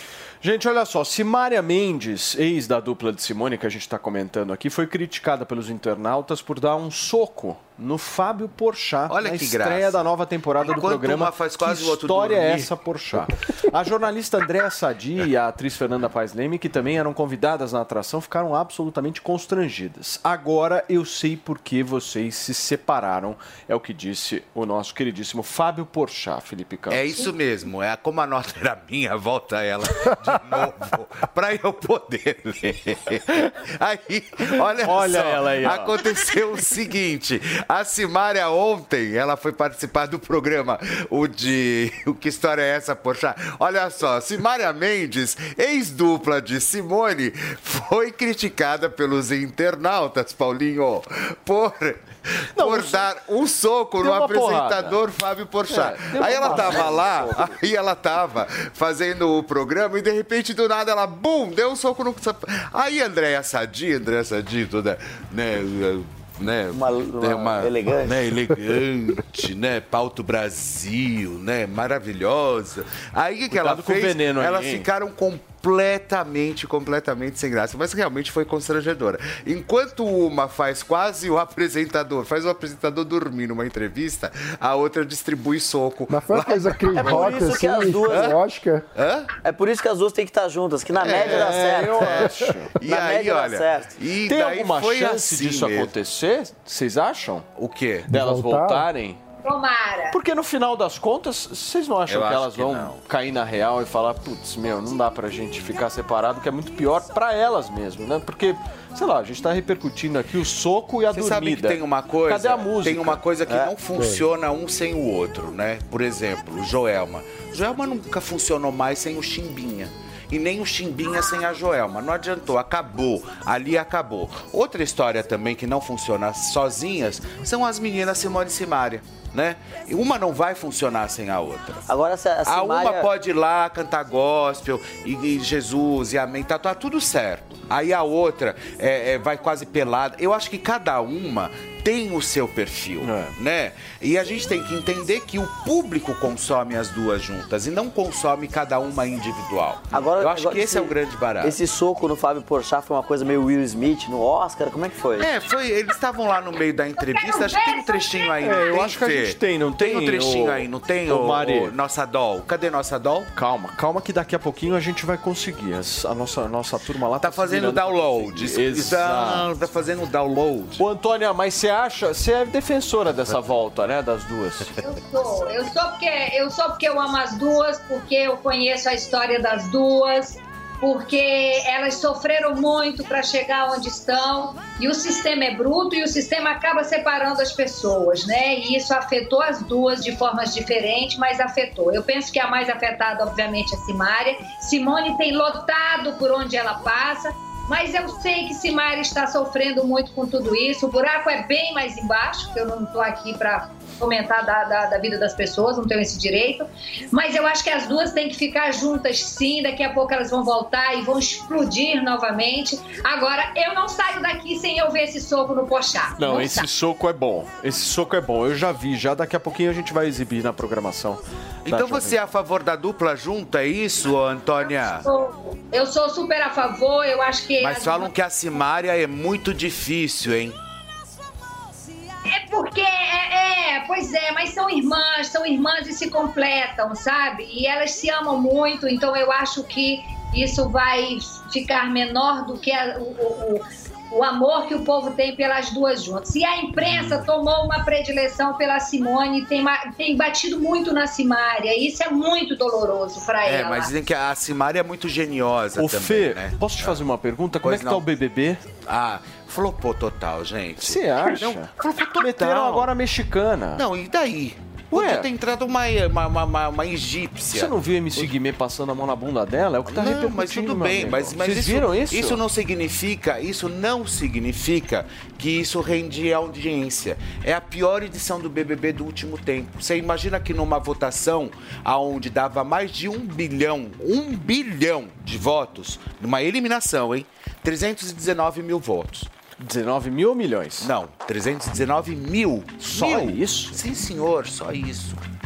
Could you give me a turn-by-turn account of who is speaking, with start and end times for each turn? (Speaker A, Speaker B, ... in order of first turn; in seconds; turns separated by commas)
Speaker A: 0.4-27.2, Speaker B: 9.1-10.0, Speaker B: 10.6-12.7, Speaker B: 26.9-88.4, Speaker A: 34.8-36.0, Speaker A: 52.5-53.5, Speaker A: 54.0-55.0, Speaker A: 55.7-57.4, Speaker C: 56.4-57.4, Speaker C: 66.7-68.2, Speaker A: 73.5-74.9, Speaker D: 86.1-88.8, Speaker C: 87.0-88.3, Speaker B: 88.9-89.3, Speaker C: 89.4-92.3, Speaker B: 91.0-92.3, Speaker A: 91.1-92.7, Speaker B: 92.8-95.9, Speaker C: 92.8-93.9, Speaker A: 94.2-97.5, Speaker B: 97.6-98.1, Speaker D: 98.1-98.9, Speaker A: 98.1-99.2, Speaker E: 99.4-100.1, Speaker A: 100.1-113.2, Speaker B: 102.1-103.0, Speaker B: 111.1-131.8, Speaker C: 113.5-113.7, Speaker C: 131.9-133.1, Speaker B: 132.4-151.6, Speaker A: 143.0-143.3, Speaker C: 149.9-155.3, Speaker B: 155.2-163.3, Speaker E: 157.0-158.8, Speaker A: 158.4-161.7, Speaker A: 163.3-169.5, Speaker B: 167.2-170.8, Speaker A: 170.8-174.7, Speaker E: 174.8-216.7, Speaker A: 216.2-222.2, Speaker B: 221.7-225.1, Speaker E: 224.9-228.1, Speaker B: 227.6-230.6, Speaker E: 232.2-253.9, Speaker B: 253.4-257.0, Speaker A: 255.8-258.7, Speaker B: 257.6-258.1, Speaker B: 258.8-262.9, Speaker A: 260.8-263.8, Speaker B: 263.8-268.3, Speaker A: 264.9-265.3, Speaker A: 267.5-272.4, Speaker B: 269.9-289.3, Speaker A: 289.6-290.9, Speaker B: 290.8-295.2, Speaker A: 292.8-293.8